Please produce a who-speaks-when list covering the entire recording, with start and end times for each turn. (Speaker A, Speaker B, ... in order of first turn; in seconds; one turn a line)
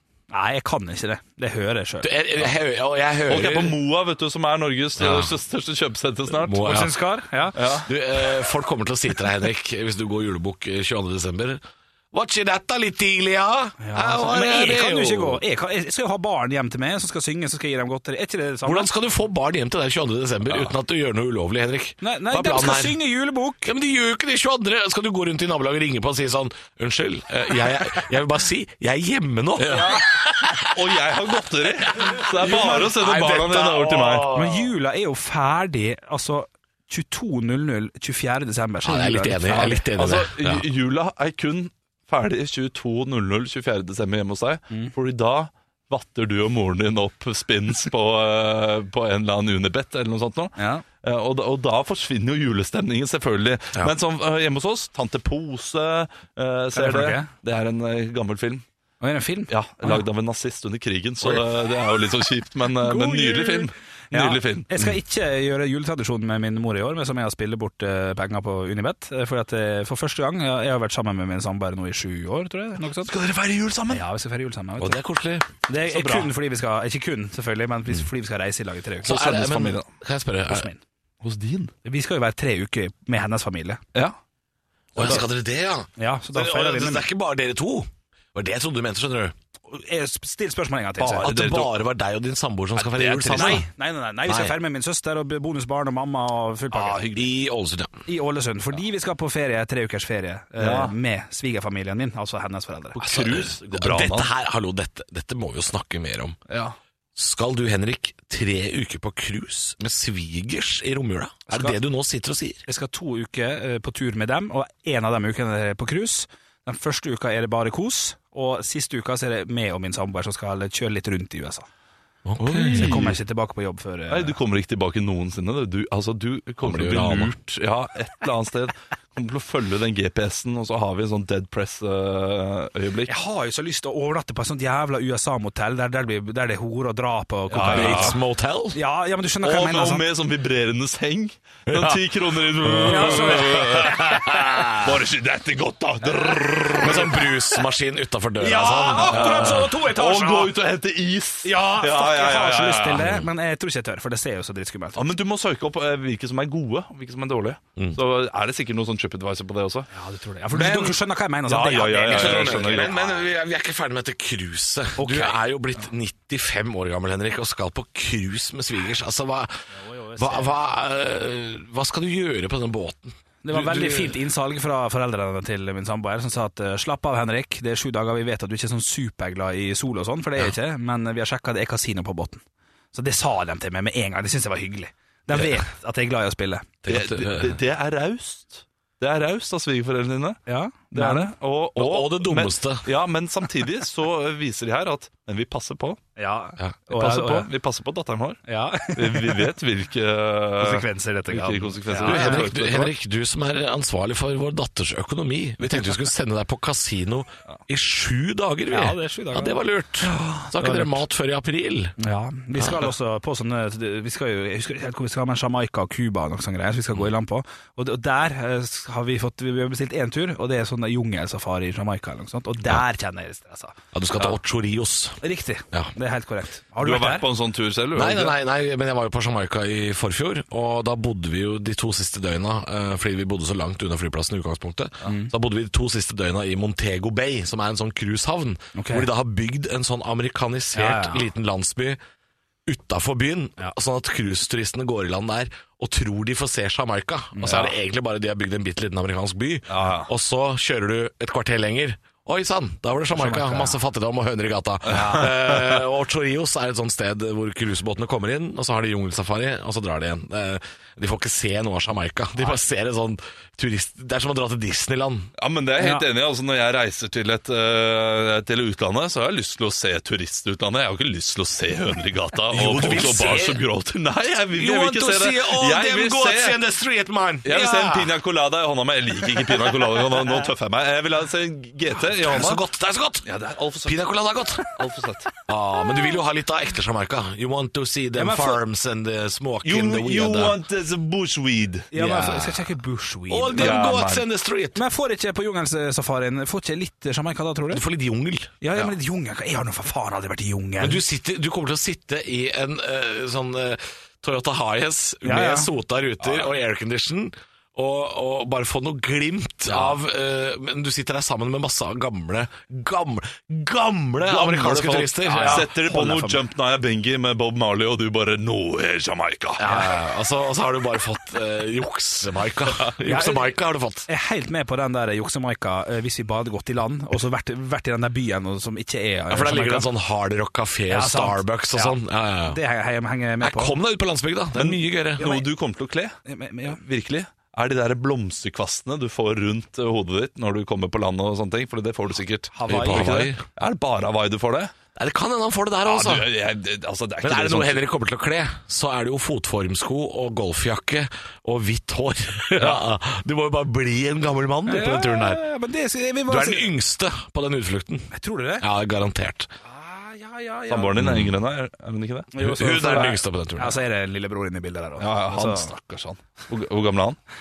Speaker A: 0.3-2.1
Speaker B: 2.0-3.8
Speaker C: 3.3-6.9
Speaker B: 5.0-5.3
Speaker B: 6.4-7.0
Speaker A: 6.6-7.6
Speaker C: 7.5-7.9
Speaker B: 7.8-11.6
Speaker B: 12.1-15.4
Speaker A: 13.8-18.9
Speaker B: 18.6-23.0
Speaker A: 22.0-23.7
Speaker B: 23.6-30.7
Speaker C: 29.6-34.3
Speaker B: 31.9-34.7
Speaker A: 34.3-39.9
Speaker B: 38.8-40.6
Speaker C: 40.0-58.6
Speaker A: 50.6-50.8
Speaker A: 56.7-57.3
Speaker A: 59.0-60.0
Speaker C: 59.5-64.7
Speaker A: 62.8-73.1
Speaker C: 73.0-74.0
Speaker A: 73.9-75.0
Speaker B: 74.8-75.5
Speaker A: 75.7-79.5
Speaker C: 75.9-76.3
Speaker B: 79.0-80.7
Speaker C: 79.0-79.9
Speaker A: 80.5-80.8
Speaker C: 81.2-81.7
Speaker A: 81.8-83.8
Speaker B: 84.9-89.3
Speaker A: 86.0-87.0
Speaker A: 89.7-91.3
Speaker B: 91.0-93.6
Speaker C: 91.1-91.7
Speaker C: 92.8-93.6
Speaker A: 93.3-97.0
Speaker B: 94.2-94.5
Speaker C: 96.7-97.3
Speaker B: 97.1-97.9
Speaker A: 98.1-103.0
Speaker C: 100.6-100.9
Speaker C: 102.9-104.3
Speaker B: 103.0-106.4
Speaker C: 106.5-106.7
Speaker B: 107.2-112.6
Speaker A: 111.5-111.7
Speaker A: 112.7-121.7
Speaker B: 122.2-123.1
Speaker C: 122.4-123.1
Speaker A: 122.7-124.4
Speaker C: 124.1-133.1
Speaker B: 126.6-127.3
Speaker A: 133.1-138.2
Speaker C: 137.5-138.2
Speaker B: 137.7-138.8
Speaker A: 138.7-140.0
Speaker C: 139.4-147.2
Speaker B: 141.7-142.0
Speaker B: 142.6-144.8
Speaker A: 142.8-144.2
Speaker B: 146.8-149.7
Speaker A: 148.4-150.5
Speaker C: 148.9-153.1
Speaker A: 151.4-155.1
Speaker B: 152.9-153.3
Speaker C: 154.9-159.9
Speaker A: 159.9-162.8
Speaker B: 160.5-160.9
Speaker C: 161.5-163.2
Speaker B: 162.1-169.6
Speaker A: 165.0-165.3
Speaker A: 169.7-170.5
Speaker B: 170.2-174.2
Speaker A: 173.4-182.4
Speaker A: 182.9-186.7
Speaker B: 186.8-187.6
Speaker C: 186.9-190.4
Speaker A: 190.5-191.3
Speaker C: 190.9-196.0
Speaker B: 191.8-192.9
Speaker A: 196.2-197.5
Speaker C: 196.9-202.9
Speaker A: 198.5-199.5
Speaker A: 200.6-202.9
Speaker B: 202.0-211.9
Speaker A: 208.7-211.0
Speaker A: 212.0-223.7
Speaker B: 212.6-212.8
Speaker B: 223.9-225.2
Speaker A: 225.2-227.3
Speaker C: 226.8-228.3
Speaker B: 227.9-242.0
Speaker A: 235.0-235.3
Speaker A: 238.7-239.1
Speaker A: 240.7-241.2
Speaker B: 242.7-265.3
Speaker A: 247.3-247.7
Speaker C: 249.7-250.1
Speaker A: 253.1-253.8
Speaker C: 254.9-255.8
Speaker A: 254.9-255.2
Speaker C: 265.4-276.6
Speaker A: 265.8-266.0
Speaker B: 272.5-273.6
Speaker B: 274.5-278.1
Speaker C: 277.4-282.6
Speaker B: 282.2-283.2
Speaker C: 283.2-284.1
Speaker B: 283.8-284.6
Speaker C: 284.6-285.3
Speaker B: 285.5-290.6
Speaker A: 288.1-288.6
Speaker C: 289.6-291.9
Speaker A: 291.9-293.9
Speaker B: 291.9-292.6
Speaker B: 293.3-294.8
Speaker C: 293.6-294.2
Speaker A: 294.7-297.8
Speaker B: 297.7-298.5
Speaker A: 298.6-301.0
Speaker B: 300.8-315.7
Speaker A: 305.2-305.7
Speaker C: 314.2-319.8
Speaker A: 315.2-316.4
Speaker B: 319.6-324.1
Speaker A: 323.0-329.9
Speaker B: 329.3-332.6
Speaker A: 330.9-333.8
Speaker B: 333.4-335.2
Speaker C: 334.5-336.1
Speaker A: 335.2-335.5
Speaker A: 336.2-336.8
Speaker C: 336.7-344.7
Speaker A: 342.5-343.1
Speaker B: 342.7-343.4
Speaker B: 344.9-346.3
Speaker C: 345.8-347.8
Speaker B: 347.2-355.4
Speaker A: 354.6-356.7
Speaker B: 356.3-359.5
Speaker A: 358.1-358.6
Speaker A: 359.6-361.0
Speaker C: 360.7-363.0
Speaker B: 361.0-361.4
Speaker A: 362.3-365.7
Speaker B: 362.4-363.8
Speaker C: 365.0-367.2